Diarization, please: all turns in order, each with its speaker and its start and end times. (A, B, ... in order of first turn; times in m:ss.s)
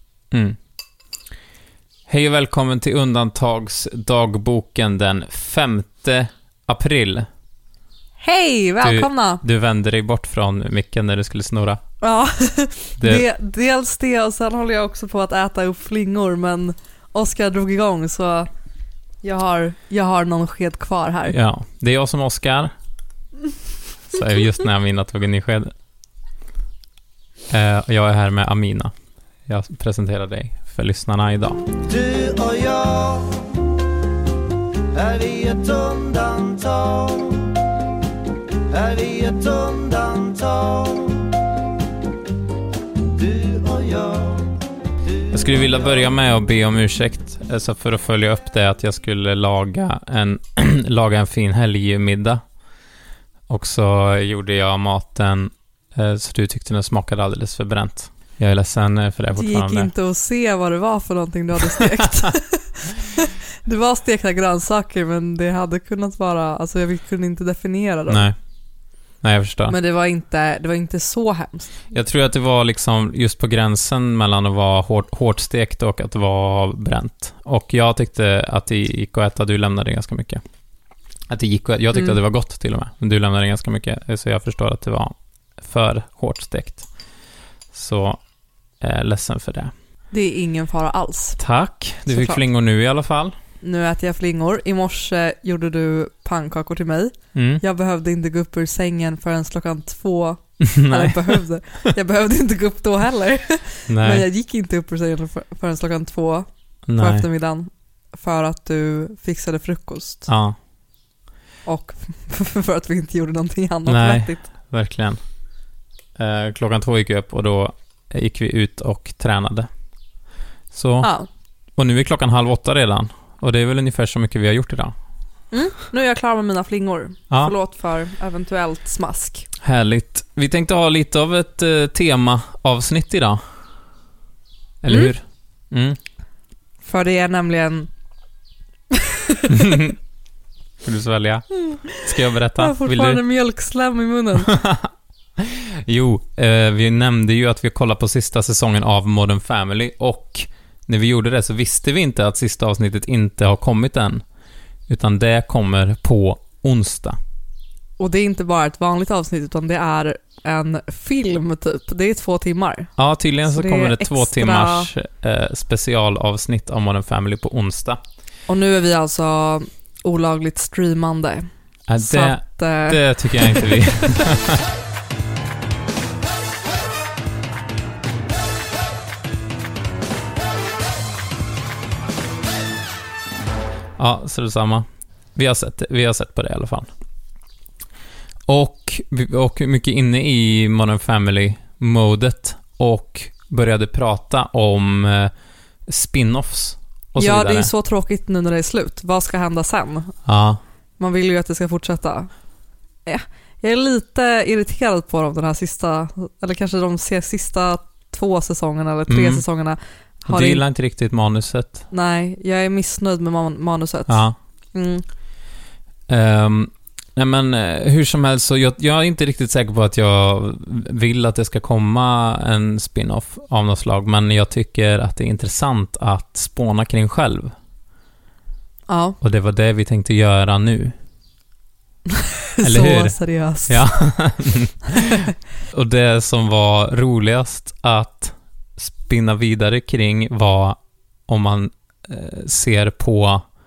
0:00.3-0:00.6 A
0:02.1-0:07.3 A
0:08.2-0:09.4 B
0:08.8-0:11.8 A
0:12.0-0:18.5 B
0:13.0-0:13.2 A
0:19.2-0:21.4 B
0:21.3-0:22.7 A
0:24.1-0:25.7 A
0:27.5-0:28.9 A
0:29.5-0:31.6 A
0:31.8-0:33.6 C
0:34.9-0:37.6 C
0:38.7-0:41.4 C
0:43.0-0:46.1 C
0:45.3-0:52.4 A
0:53.5-0:59.9 A
0:59.3-1:08.3 B
1:08.1-1:08.4 A
1:09.2-1:09.8 A
1:09.7-1:11.8 B
1:11.9-1:20.4 A
1:21.3-1:26.9 A
1:27.7-1:28.2 A
1:28.8-1:29.7 A
1:30.1-1:31.4 B
1:31.4-1:33.4 A
1:32.1-1:32.4 B
1:33.6-1:50.3 B
1:37.3-1:37.6 A
1:40.6-1:41.4 A
1:43.9-1:44.2 A
1:46.9-1:47.2 A
1:50.3-1:50.6 A
1:51.6-1:54.5 B
1:53.8-1:55.2 A
1:56.2-1:59.7 A
2:00.7-2:01.1 A
2:01.0-2:01.3 B
2:01.8-2:04.9 A
2:05.5-2:09.5 B
2:09.6-2:13.4 A
2:14.8-2:16.0 A
2:16.8-2:17.9 B
2:18.9-2:19.6 B
2:19.5-2:20.0 A
2:20.8-2:23.2 A
2:21.5-2:24.6 B
2:24.4-2:34.2 A
2:34.9-2:37.2 A
2:38.0-2:42.9 B
2:43.0-2:48.0 A
2:43.5-2:44.9 B
2:48.5-2:54.2 B
2:51.9-2:54.6 A
3:04.0-3:06.9 A
3:08.5-3:15.3 A
3:15.9-3:17.7 A
3:17.2-3:20.1 B
3:20.2-3:20.6 A
3:21.0-3:22.3 B
3:23.0-3:30.6 B
3:29.1-3:29.4 A
3:30.2-3:31.8 A
3:31.9-3:35.0 B
3:34.1-3:34.3 A
3:36.1-3:47.5 A
3:48.9-3:49.2 B
3:49.2-3:50.9 A
3:52.6-3:53.9 B
3:52.6-3:53.2 A
3:53.7-4:03.4 A
3:54.9-3:55.2 B